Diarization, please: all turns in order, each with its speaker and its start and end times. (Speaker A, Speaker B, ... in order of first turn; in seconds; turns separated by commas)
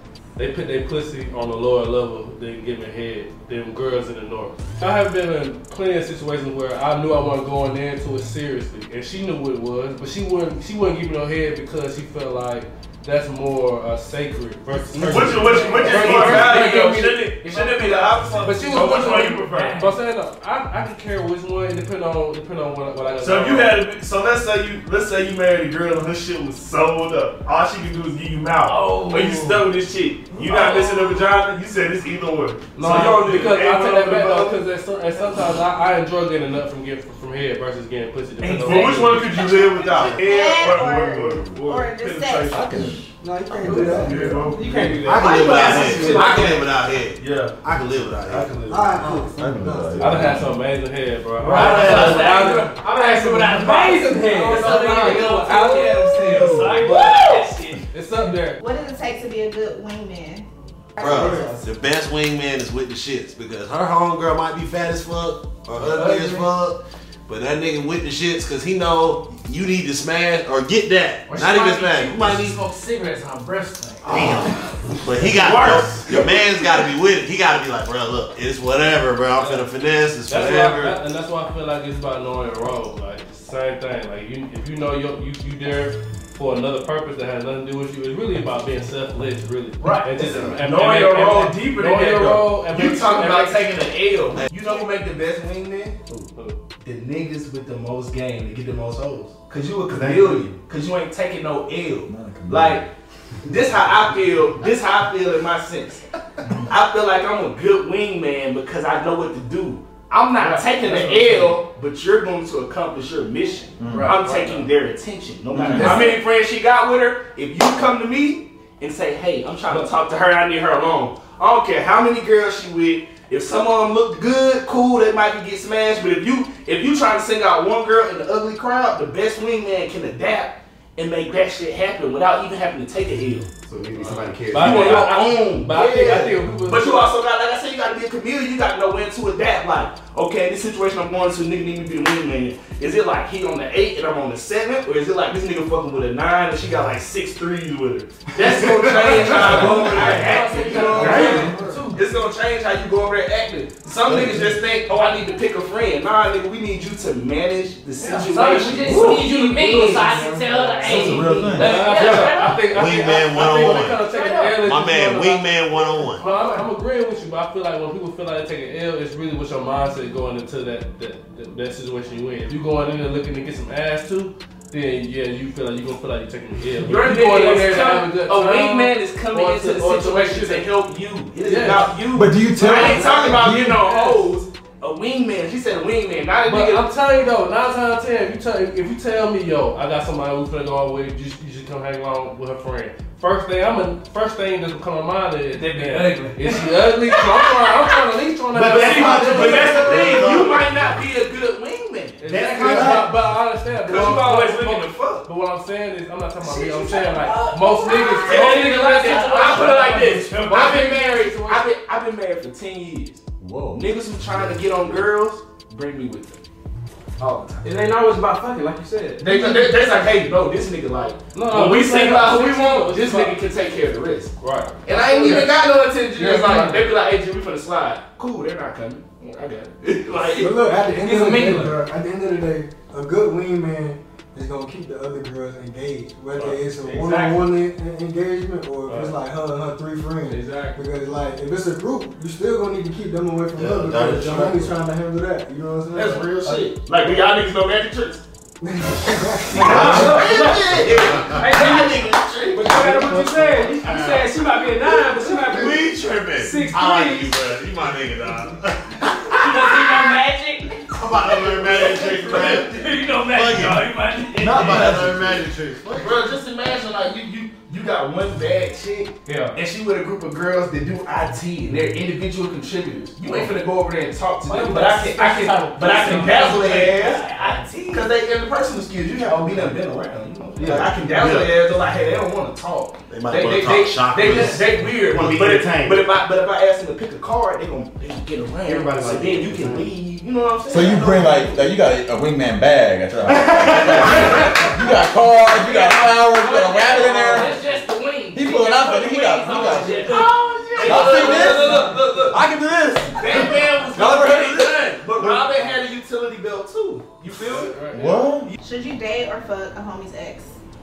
Speaker A: 0.4-16.8, Speaker B: 15.0-19.8, Speaker C: 15.3-19.9, Speaker A: 18.4-23.8, Speaker B: 23.2-34.6, Speaker C: 28.6-29.7, Speaker C: 30.3-31.3, Speaker A: 32.8-39.4, Speaker B: 38.4-43.0, Speaker C: 38.7-40.1, Speaker D: 39.9-40.2, Speaker E: 40.1-42.7, Speaker D: 40.7-41.5, Speaker F: 42.5-43.0, Speaker G: 43.2-44.5, Speaker F: 43.6-44.1, Speaker B: 43.6-46.5, Speaker H: 44.4-46.6, Speaker D: 45.0-48.6, Speaker B: 47.2-47.6, Speaker B: 48.2-49.2, Speaker G: 48.7-50.4, Speaker F: 49.4-50.5, Speaker A: 50.0-52.7, Speaker H: 51.5-56.8, Speaker C: 51.5-57.8, Speaker D: 51.5-51.9, Speaker A: 54.7-58.6, Speaker B: 56.2-56.8, Speaker E: 58.6-61.4, Speaker G: 61.0-61.7, Speaker D: 61.0-72.6, Speaker G: 65.9-66.4, Speaker C: 66.0-66.4, Speaker C: 71.3-74.2, Speaker D: 74.0-81.0, Speaker H: 75.4-75.8, Speaker B: 75.6-76.2, Speaker A: 79.4-79.7, Speaker A: 80.3-93.7, Speaker C: 89.8-90.1, Speaker D: 90.2-90.6, Speaker B: 90.6-96.1, Speaker B: 96.8-102.9, Speaker I: 99.9-100.5, Speaker F: 102.1-102.8, Speaker B: 103.4-106.0, Speaker B: 106.7-133.5, Speaker A: 110.4-111.5, Speaker F: 113.8-114.1, Speaker A: 113.9-114.5, Speaker C: 113.9-114.6, Speaker F: 115.5-116.1, Speaker A: 115.8-116.1, Speaker C: 115.8-116.2, Speaker I: 133.7-135.0, Speaker A: 134.5-137.1, Speaker B: 134.5-159.2, Speaker G: 148.4-151.8, Speaker C: 148.8-152.0, Speaker F: 149.5-149.9, Speaker F: 154.1-154.6, Speaker C: 158.0-162.7, Speaker G: 159.0-161.4, Speaker F: 160.8-161.9, Speaker A: 161.6-165.5, Speaker D: 161.9-164.0, Speaker C: 163.4-164.6, Speaker D: 164.6-166.2, Speaker C: 166.0-166.7, Speaker A: 166.2-180.7, Speaker B: 176.8-186.9, Speaker A: 181.4-181.9, Speaker F: 182.1-183.7, Speaker A: 182.6-184.3, Speaker A: 186.5-200.3, Speaker C: 195.6-198.0, Speaker I: 198.5-200.1, Speaker D: 198.6-201.0, Speaker B: 198.7-202.9, Speaker A: 202.2-211.2, Speaker I: 202.3-203.1, Speaker B: 203.8-205.3, Speaker C: 206.7-211.6, Speaker B: 208.2-213.2, Speaker F: 213.4-215.0, Speaker B: 213.7-216.4, Speaker B: 217.2-217.7, Speaker H: 217.6-219.5, Speaker B: 219.2-224.3, Speaker A: 221.3-223.3, Speaker A: 224.4-225.4, Speaker B: 224.8-230.6, Speaker H: 224.9-225.5, Speaker A: 226.2-226.8, Speaker G: 230.3-246.7, Speaker C: 230.8-231.8, Speaker A: 236.3-237.3, Speaker B: 236.8-237.4, Speaker A: 238.9-239.1, Speaker A: 240.3-240.8, Speaker D: 243.6-244.8, Speaker B: 245.9-248.2, Speaker G: 248.6-250.3, Speaker B: 249.5-252.8, Speaker H: 249.6-257.5, Speaker D: 249.6-251.6, Speaker D: 252.7-260.1, Speaker C: 259.3-264.9, Speaker D: 260.9-266.3, Speaker B: 261.2-262.9, Speaker F: 264.4-265.4, Speaker B: 264.7-265.0, Speaker B: 265.9-291.7, Speaker C: 274.5-278.1, Speaker I: 280.6-280.9, Speaker D: 280.6-281.6, Speaker D: 283.1-284.7, Speaker I: 285.0-286.1, Speaker I: 288.6-289.9, Speaker F: 290.7-297.6, Speaker B: 293.7-294.7, Speaker C: 294.1-294.4, Speaker C: 295.5-301.9, Speaker F: 298.3-300.2, Speaker B: 299.6-302.5, Speaker F: 300.8-304.9, Speaker G: 301.6-301.9, Speaker B: 303.1-308.5, Speaker C: 303.3-303.6, Speaker A: 307.5-308.0, Speaker F: 307.9-308.6, Speaker E: 308.6-310.5